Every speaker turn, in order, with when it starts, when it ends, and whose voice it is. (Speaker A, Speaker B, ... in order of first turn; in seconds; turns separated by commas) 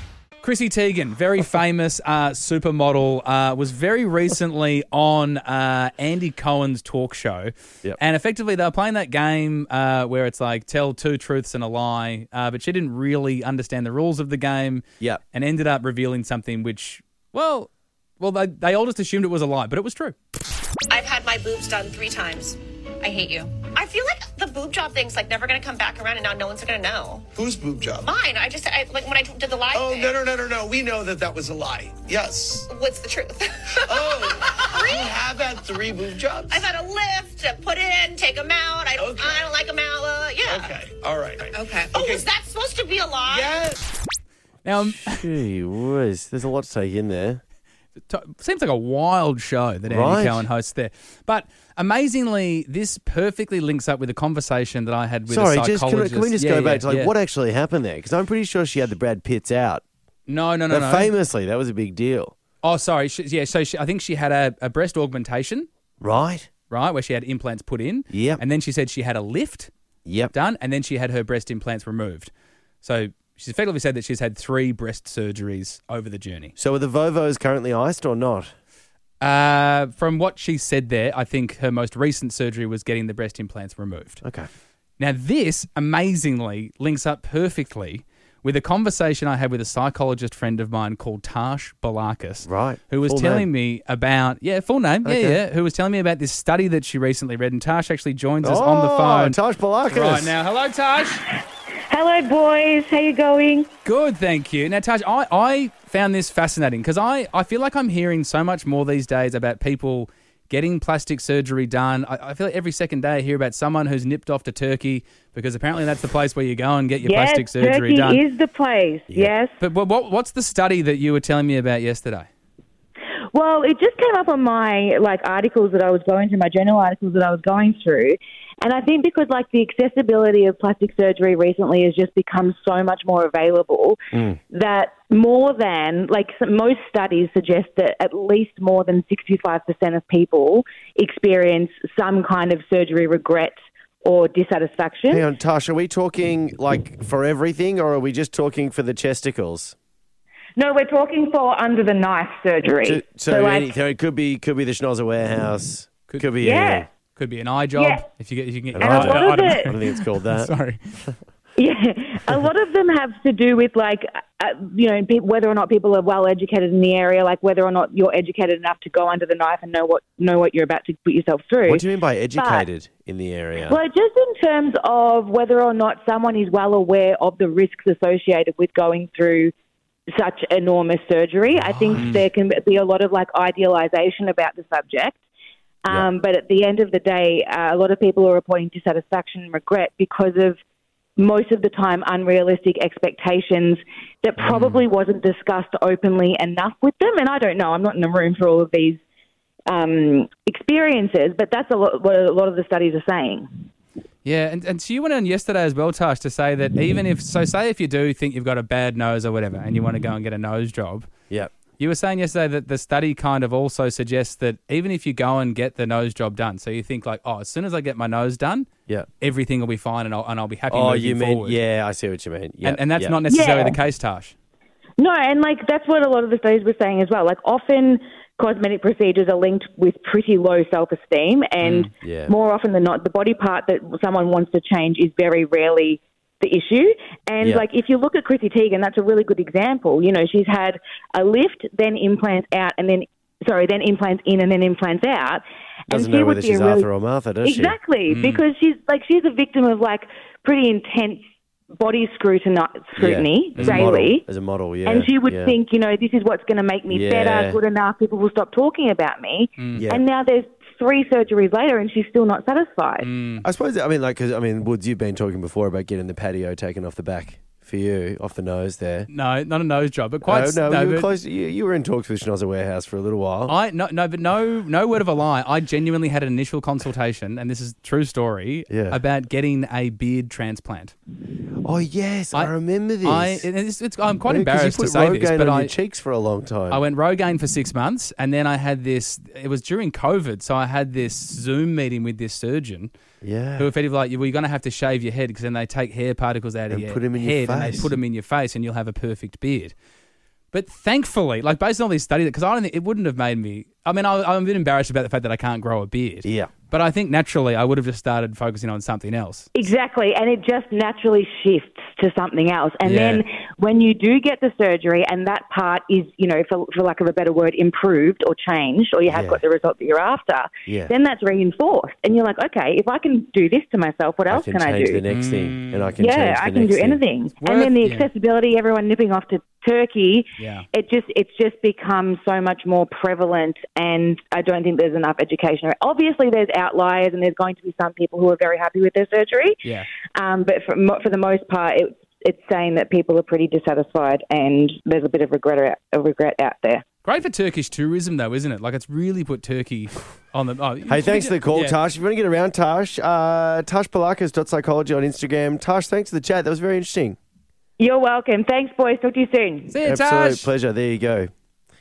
Speaker A: 0.4-20.1, Speaker B: 20.9-27.3, Speaker C: 27.3-28.1, Speaker B: 28.0-30.2, Speaker C: 29.7-32.7, Speaker B: 32.7-35.2, Speaker C: 33.8-36.7, Speaker B: 36.5-40.7, Speaker C: 39.0-39.6, Speaker C: 40.4-42.3, Speaker B: 41.5-43.5, Speaker C: 43.2-43.9, Speaker A: 44.6-45.3, Speaker D: 44.8-47.4, Speaker A: 48.1-57.1, Speaker D: 49.9-50.5, Speaker D: 55.3-59.8, Speaker A: 60.3-61.1, Speaker D: 60.7-62.3, Speaker A: 62.6-65.7, Speaker D: 66.0-66.5, Speaker A: 66.7-69.7, Speaker D: 68.1-68.4, Speaker D: 70.0-70.3, Speaker A: 70.3-72.3, Speaker A: 72.8-76.5, Speaker D: 76.6-78.5, Speaker A: 79.2-84.2, Speaker D: 84.2-84.5, Speaker A: 85.0-99.4, Speaker D: 92.4-93.5, Speaker D: 95.0-95.4, Speaker D: 98.4-100.3, Speaker A: 99.9-101.2, Speaker E: 101.9-103.7, Speaker A: 103.8-118.2, Speaker E: 117.0-119.5, Speaker A: 119.6-122.3, Speaker E: 123.3-134.0, Speaker D: 134.1-134.4, Speaker E: 134.5-145.2, Speaker D: 145.1-149.7, Speaker E: 150.6-153.7, Speaker D: 152.8-156.9, Speaker E: 156.4-156.9, Speaker A: 157.2-161.1, Speaker E: 157.8-158.1, Speaker D: 158.7-160.5, Speaker E: 158.8-159.7, Speaker E: 161.6-172.7, Speaker D: 171.7-173.8, Speaker E: 173.6-179.5, Speaker E: 180.1-185.2, Speaker D: 181.6-182.2, Speaker E: 185.8-190.6, Speaker E: 191.2-199.0, Speaker E: 199.7-203.6, Speaker A: 204.2-211.1, Speaker A: 211.8-218.7, Speaker A: 219.2-221.6, Speaker D: 220.7-223.1, Speaker A: 222.6-224.3, Speaker E: 223.3-223.8, Speaker E: 225.0-246.9, Speaker A: 231.6-231.9, Speaker D: 232.0-232.3, Speaker D: 245.9-247.8, Speaker E: 247.4-251.2, Speaker A: 248.1-248.4, Speaker E: 251.8-254.2, Speaker D: 252.9-255.6, Speaker A: 253.6-253.9, Speaker E: 254.8-263.1, Speaker D: 256.9-257.6, Speaker A: 259.6-259.9, Speaker D: 259.7-260.0, Speaker A: 263.0-263.4, Speaker D: 263.4-269.1, Speaker A: 269.1-271.1, Speaker D: 270.2-273.5, Speaker A: 273.5-280.9, Speaker D: 278.7-279.0, Speaker D: 281.6-283.5, Speaker A: 282.3-285.7, Speaker D: 284.2-286.8, Speaker A: 286.7-292.9, Speaker D: 293.2-293.7, Speaker A: 293.6-299.7, Speaker D: 296.7-297.9, Speaker A: 300.5-309.5, Speaker D: 306.2-306.5, Speaker E: 309.5-325.0, Speaker A: 312.8-313.2, Speaker D: 319.1-319.4, Speaker D: 320.7-320.9, Speaker D: 324.3-327.0, Speaker A: 325.1-325.9, Speaker E: 326.0-346.8, Speaker A: 327.4-328.1, Speaker A: 330.4-330.6, Speaker A: 347.0-351.8, Speaker D: 350.9-357.2, Speaker E: 357.8-359.7, Speaker A: 359.7-360.5, Speaker D: 359.8-361.3